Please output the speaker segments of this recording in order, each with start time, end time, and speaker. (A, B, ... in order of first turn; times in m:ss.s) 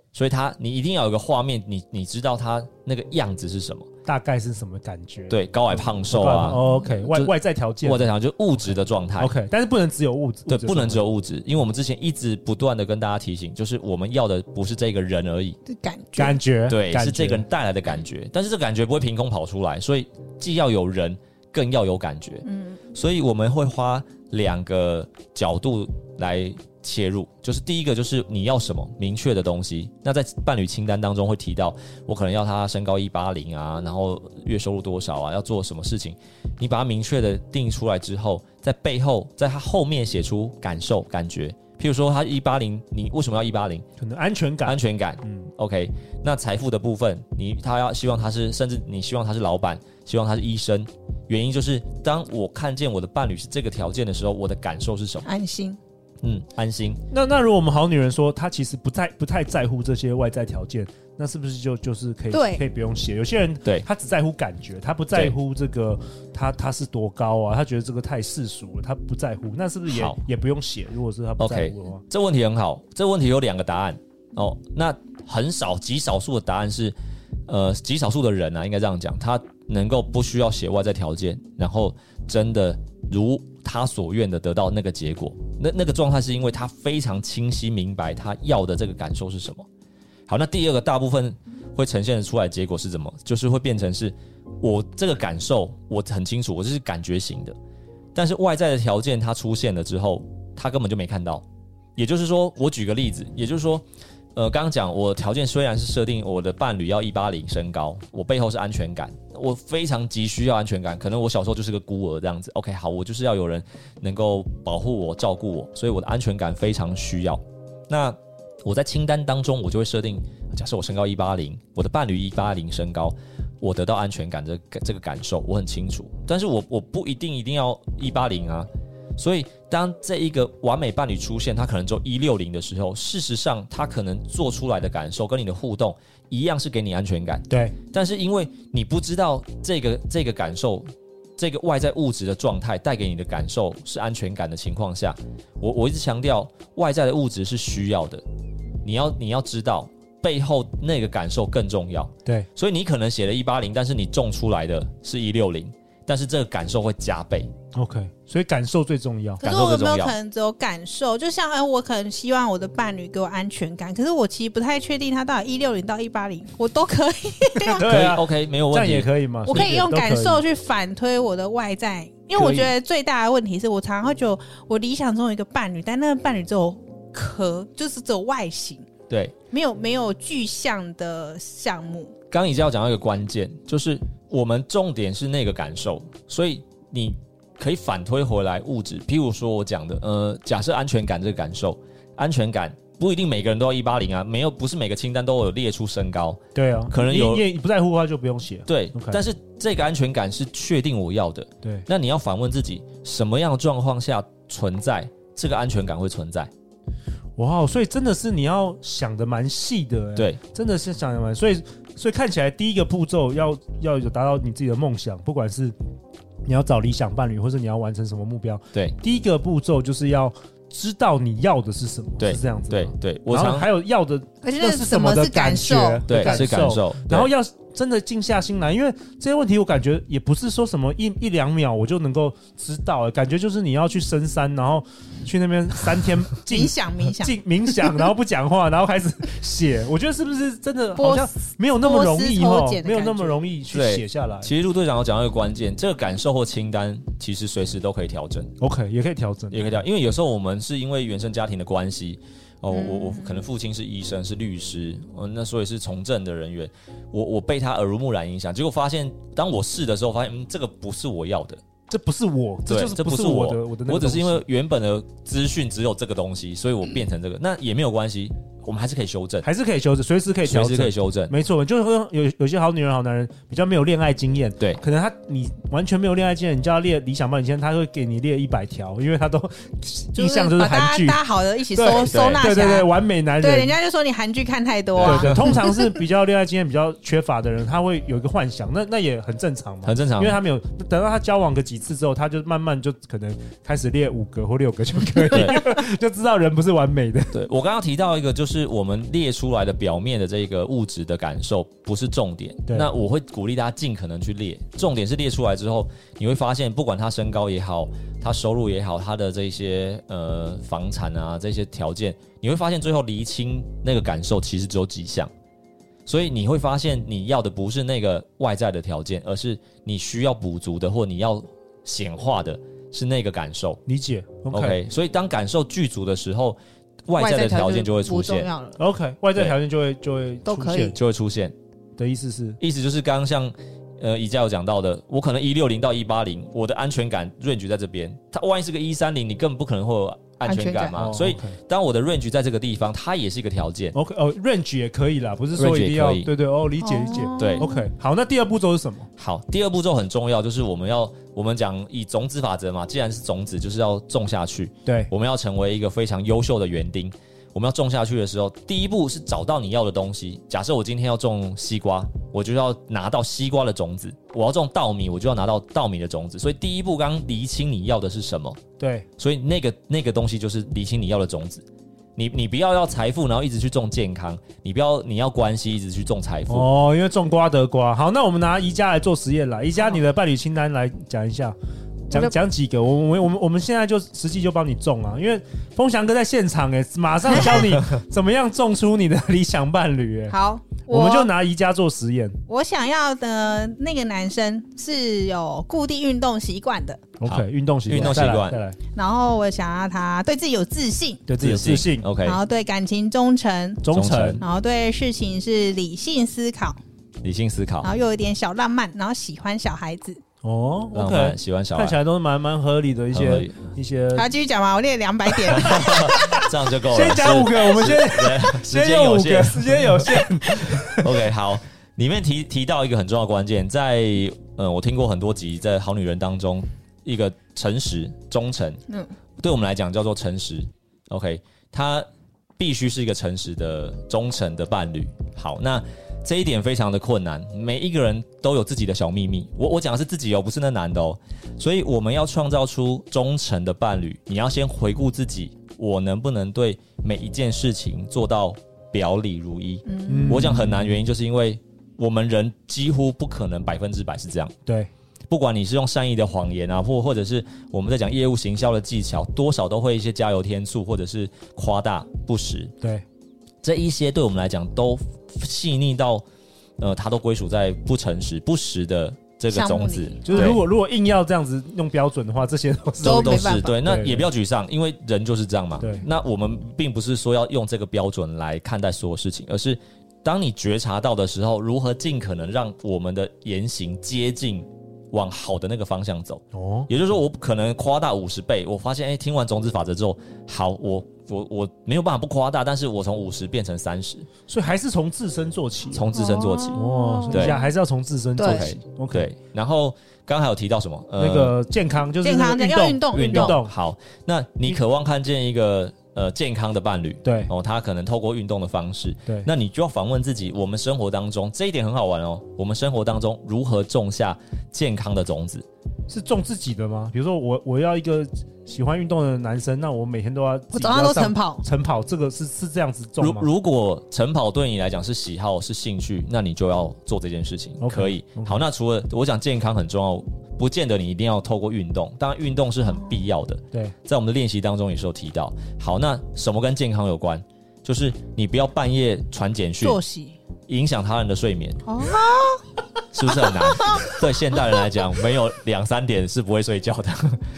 0:00.1-0:03.9 A
0:04.1-0:08.1 B
0:05.3-0:09.3 A
0:09.2-0:11.0 B
0:10.5-0:15.6 A
0:15.7-0:16.4 C
0:16.2-0:17.4 B
0:16.7-0:43.8 A
0:22.5-0:22.8 C
0:44.0-0:45.5 B
0:44.6-0:55.3 A
0:55.2-0:55.8 C
0:56.2-0:57.0 A
0:57.1-1:12.0 B
1:02.3-1:02.6 C
1:09.9-1:10.2 A
1:11.4-1:17.0 A
1:17.5-1:29.7 A
1:30.3-1:37.6 A
1:38.2-1:41.4 A
1:42.0-2:28.2 A
2:17.5-2:17.8 B
2:28.8-2:37.5 A
2:37.8-2:39.4 B
2:39.4-2:47.9 C
2:39.4-2:40.2 A
2:47.6-2:50.4 B
2:47.8-2:49.8 A
2:49.5-2:58.8 C
2:52.4-2:52.7 B
2:59.1-2:59.4 A
2:59.5-3:02.1 C
3:02.3-3:17.4 A
3:16.6-3:19.2 B
3:18.7-3:26.5 A
3:21.6-3:21.9 B
3:27.4-3:35.7 B
3:36.5-4:04.5 B
3:42.2-3:43.7 A
3:44.4-3:46.5 C
3:46.1-3:47.3 A
3:56.5-3:58.0 C
4:01.0-4:03.5 C
4:03.7-4:08.5 A
4:08.6-4:09.6 B
4:09.5-4:21.6 A
4:12.7-4:13.4 C
4:21.9-4:24.4 B
4:22.7-4:29.5 A
4:29.4-4:41.2 B
4:30.4-4:31.3 A
4:40.2-4:45.9 C
4:41.7-4:43.7 B
4:42.1-4:42.5 A
4:45.0-4:45.4 A
4:45.0-4:57.4 B
4:49.8-4:50.4 A
4:55.3-4:55.7 A
4:57.3-5:15.3 A
5:16.1-5:23.8 A
5:23.9-5:24.8 B
5:24.5-5:28.5 A
5:27.2-5:28.8 C
5:28.8-5:31.0 B
5:30.4-5:31.0 C
5:30.9-5:31.6 A
5:32.0-5:32.6 B
5:32.6-5:44.0 A
5:40.4-5:41.0 C
5:41.0-5:41.6 B
5:43.9-5:49.1 B
5:45.6-5:46.3 A
5:46.8-5:47.8 C
5:47.4-5:47.7 A
5:49.2-6:08.6 A
5:54.9-5:55.1 B
6:08.8-6:09.1 B
6:09.2-6:11.6 A
6:12.2-6:16.7 A
6:16.5-6:21.6 B
6:22.1-6:30.4 B
6:30.3-6:31.3 C
6:30.9-6:32.4 B
6:32.5-6:37.0 C
6:37.2-6:38.8 B
6:37.2-6:38.6 A
6:39.0-6:41.3 C
6:41.3-6:42.1 B
6:41.4-6:42.4 A
6:42.2-6:43.8 C
6:43.8-6:44.4 B
6:43.9-6:44.4 A
6:44.4-6:46.8 C
6:47.2-6:47.9 A
6:47.8-6:50.2 C
6:50.4-6:54.3 B
6:50.9-6:52.0 A
6:53.1-6:53.6 A
6:54.2-6:56.4 C
6:55.4-7:01.2 B
6:55.5-7:08.8 A
7:09.4-7:34.6 A
7:29.9-7:30.5 C
7:30.1-7:31.0 B
7:34.7-7:34.9 B
7:35.3-7:42.7 A
7:43.6-7:46.2 A
7:46.8-7:50.6 A
7:49.5-7:50.6 C
7:50.2-7:54.3 B
7:53.0-7:53.8 C
7:53.0-8:14.3 A
7:55.8-7:56.0 B
8:06.5-8:06.9 B
8:14.5-8:16.1 B
8:15.9-8:17.6 A
8:16.1-8:17.7 C
8:16.7-8:19.3 B
8:18.4-8:18.7 C
8:18.4-8:21.6 A
8:21.2-8:23.7 B
8:22.2-8:23.6 C
8:23.1-8:35.7 A
8:27.2-8:27.5 B
8:36.1-8:43.5 B
8:40.7-8:41.6 C
8:43.2-9:00.0 A
8:47.8-8:48.6 B
8:59.8-9:00.4 C
9:00.7-9:01.8 A
9:01.9-9:02.7 C
9:03.1-9:07.4 A
9:03.3-9:04.8 C